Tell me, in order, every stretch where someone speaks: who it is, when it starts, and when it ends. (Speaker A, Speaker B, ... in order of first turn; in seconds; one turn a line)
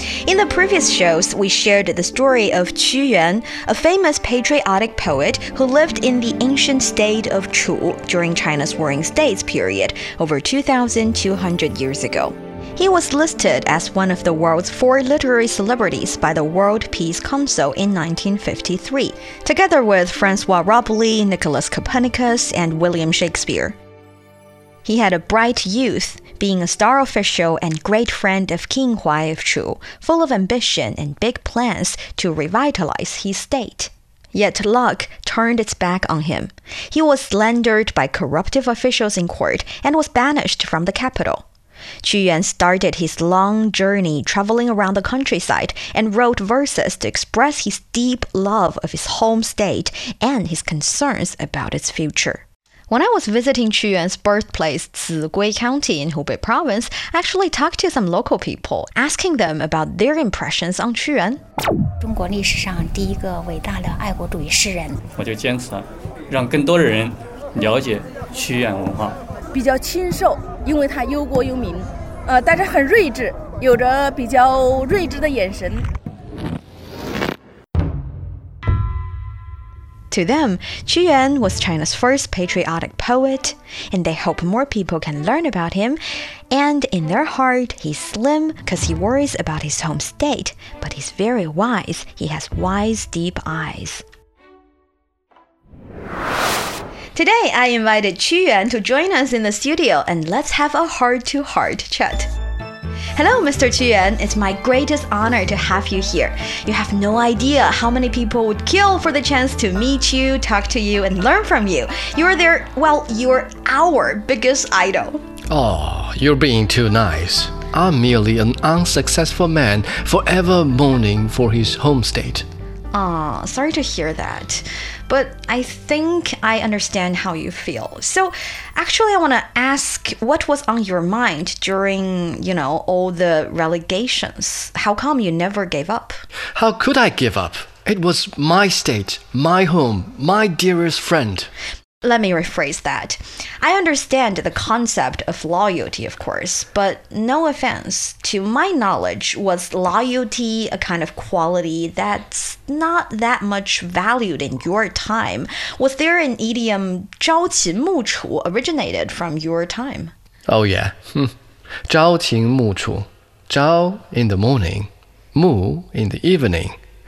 Speaker A: 0.2-23.8
Speaker A: 24.8-41.4
Speaker A: 42.0-61.4
Speaker B: 62.0-65.0
Speaker C: 65.2-69.2
Speaker D: 69.5-75.9
Speaker A: 80.1-94.0
Speaker A: 97.1-102.3
Speaker A: 103.1-115.2
Speaker E: 115.5-122.5
Speaker A: 122.9-136.2
Speaker E: 136.6-141.5
Speaker A: 142.0-160.1
Speaker E: 160.5-161.3
Speaker E: 161.9-166.8